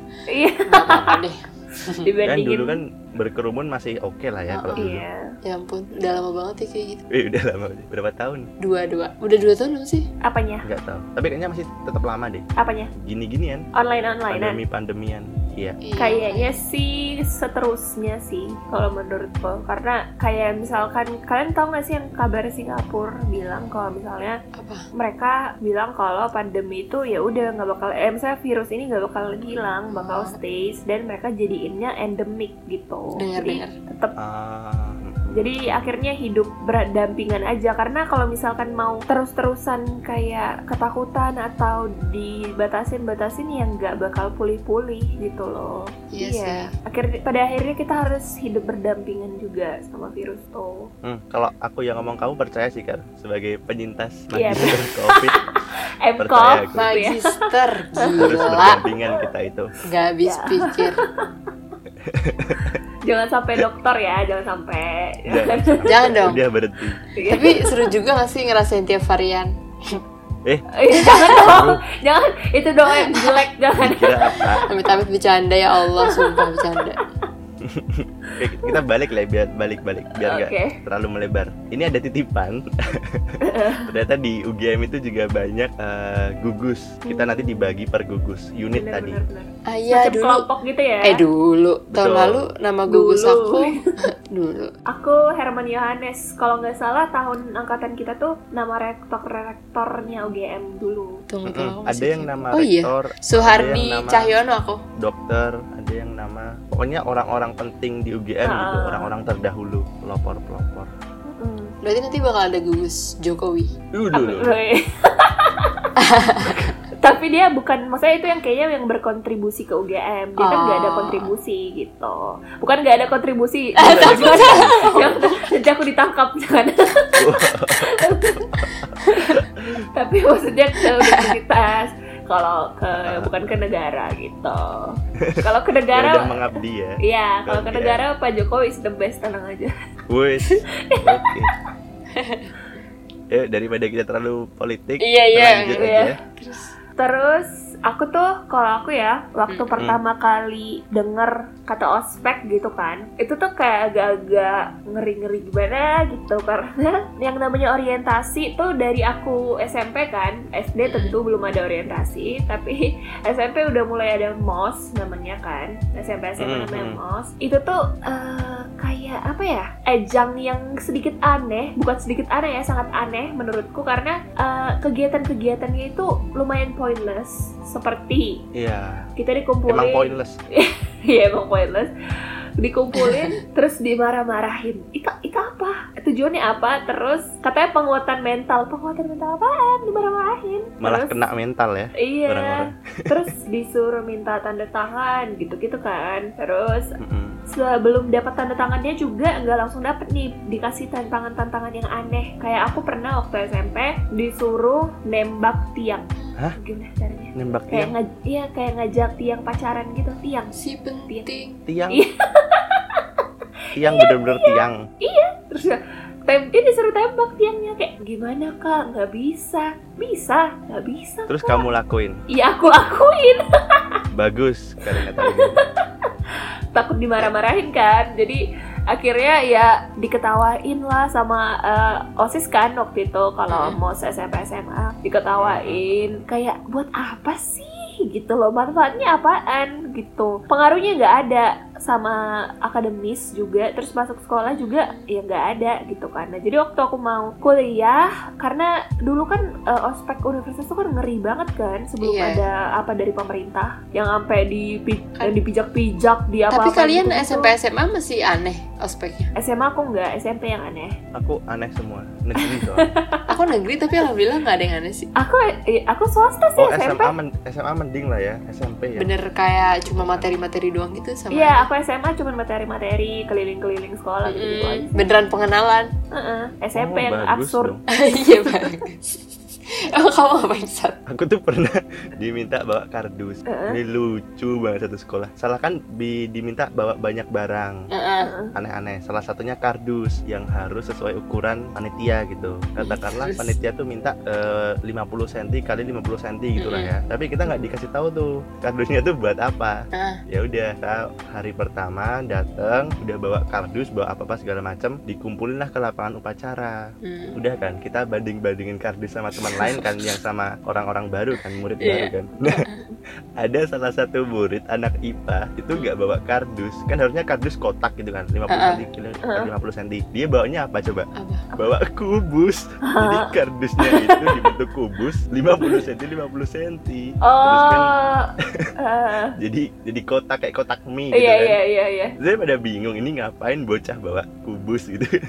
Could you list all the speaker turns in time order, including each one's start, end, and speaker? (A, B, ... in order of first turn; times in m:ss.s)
0:00.3-0:01.1 A
0:00.6-0:02.1 B
0:00.8-0:01.2 C
0:02.0-0:02.8 A
0:02.3-0:05.0 C
0:04.5-0:04.9 B
0:04.8-0:05.3 A
0:05.4-0:07.0 B
0:07.1-0:08.5 C
0:08.6-0:10.1 B
0:10.2-0:10.6 A
0:10.6-0:12.4 C
0:12.6-0:12.9 A
0:13.0-0:13.6 C
0:13.7-0:14.6 A
0:14.3-0:15.8 C
0:15.8-0:16.6 B
0:16.0-0:24.4 A
0:24.5-0:24.9 B
0:24.9-0:34.1 A
0:29.9-0:30.4 B
0:33.2-0:33.7 B
0:34.2-0:35.8 C
0:35.3-0:50.9 A
0:46.1-0:46.7 B
0:51.0-0:55.4 C
0:54.3-0:57.4 A
0:56.2-0:56.9 C
0:56.7-0:58.8 B
0:58.0-0:58.3 A
0:58.2-0:59.7 C
0:59.8-1:01.0 B
1:00.2-1:01.3 A
1:02.0-1:02.8 C
1:03.0-1:06.1 A
1:05.3-1:07.0 C
1:05.8-1:06.4 B
1:07.1-1:07.9 A
1:07.3-1:10.0 B
1:10.7-1:14.6 A
1:10.9-1:11.6 B
1:11.3-1:11.8 C
1:12.8-1:13.5 B
1:13.8-1:14.7 C
1:14.6-1:17.0 B
1:15.8-1:17.2 A
1:17.6-1:29.2 C
1:18.3-1:18.8 A
1:20.2-1:20.8 A
1:23.4-1:23.9 A
1:27.0-1:27.7 A
1:28.7-1:31.2 A
1:29.7-1:30.4 B
1:31.0-1:34.7 B
1:31.9-1:32.5 C
1:32.9-1:33.8 A
1:34.9-1:41.2 A
1:41.3-1:44.8 B
1:41.4-1:44.3 C
1:45.0-1:50.9 C
1:48.4-1:49.1 A
1:51.3-1:51.7 A
1:51.8-1:53.7 B
1:53.9-1:54.5 C
1:54.1-1:55.9 A
1:56.0-1:56.7 B
1:57.0-2:08.5 A
2:00.4-2:01.3 B
2:03.8-2:05.4 B
2:03.8-2:05.2 C
2:07.2-2:09.8 C
2:09.0-2:09.3 B
2:09.1-2:09.4 A
2:09.9-2:16.4 A
2:10.8-2:11.3 B
2:13.0-2:13.3 C
2:15.9-2:18.0 C
2:17.0-2:19.7 A
2:20.1-2:21.5 C
2:20.8-2:21.3 A
2:22.1-2:22.5 B
2:23.3-2:26.2 C
2:25.0-2:26.7 B
2:25.7-2:26.1 A
2:27.0-2:58.4 A
2:29.5-2:29.8 B
2:40.8-2:41.2 B
2:46.4-2:47.0 C
2:58.5-2:59.1 C
2:59.2-3:01.9 A
2:59.7-3:00.4 C
3:02.6-3:11.2 A
3:02.9-3:03.4 B
3:10.8-3:13.2 C
3:12.0-3:16.9 A
3:17.0-3:17.4 C
3:17.5-3:30.6 A
3:26.2-3:26.4 B
3:27.4-3:27.9 C
3:30.5-3:31.6 B
3:31.7-3:32.0 C
3:31.9-3:33.2 A
3:33.8-3:34.8 C
3:33.8-3:41.6 A
3:41.3-3:42.2 C
3:42.3-3:44.0 A
3:44.1-3:45.6 C
3:44.9-3:45.6 A
3:46.7-3:48.4 A
3:48.9-4:17.5 A
3:53.5-3:53.8 B
3:55.4-3:56.2 C
4:04.4-4:05.1 B
4:12.0-4:12.5 B
4:16.5-4:19.3 B
4:19.4-4:21.0 A
4:21.1-4:22.9 C
4:22.4-4:23.3 A
4:23.3-4:25.1 B
4:25.2-4:27.1 A
4:26.6-4:29.1 C
4:29.0-4:31.7 B
4:29.8-4:30.3 C
4:31.3-4:35.0 A
4:34.2-4:35.9 B
4:36.1-4:37.8 A
4:36.7-4:37.8 C
4:37.9-4:41.0 B
4:38.5-4:38.8 A
4:41.1-4:47.8 C
4:43.5-4:43.8 A
4:47.9-4:48.3 B
4:48.2-4:48.5 A
4:48.5-4:59.8 C
4:52.8-4:53.6 B
4:56.6-4:56.9 B
4:59.9-5:00.2 B
5:00.3-5:06.8 C
5:07.0-5:07.4 B
5:07.4-5:12.6 C
5:09.4-5:10.1 B
5:11.4-5:12.8 B
5:12.7-5:13.0 A
5:13.4-5:27.9 C
5:18.5-5:18.8 B
5:21.2-5:21.4 B
5:22.9-5:23.3 A
5:23.8-5:24.5 A
5:27.2-5:28.3 A
5:28.8-5:29.3 A
5:29.4-5:31.6 C
5:31.1-5:32.1 A
5:32.2-5:35.2 C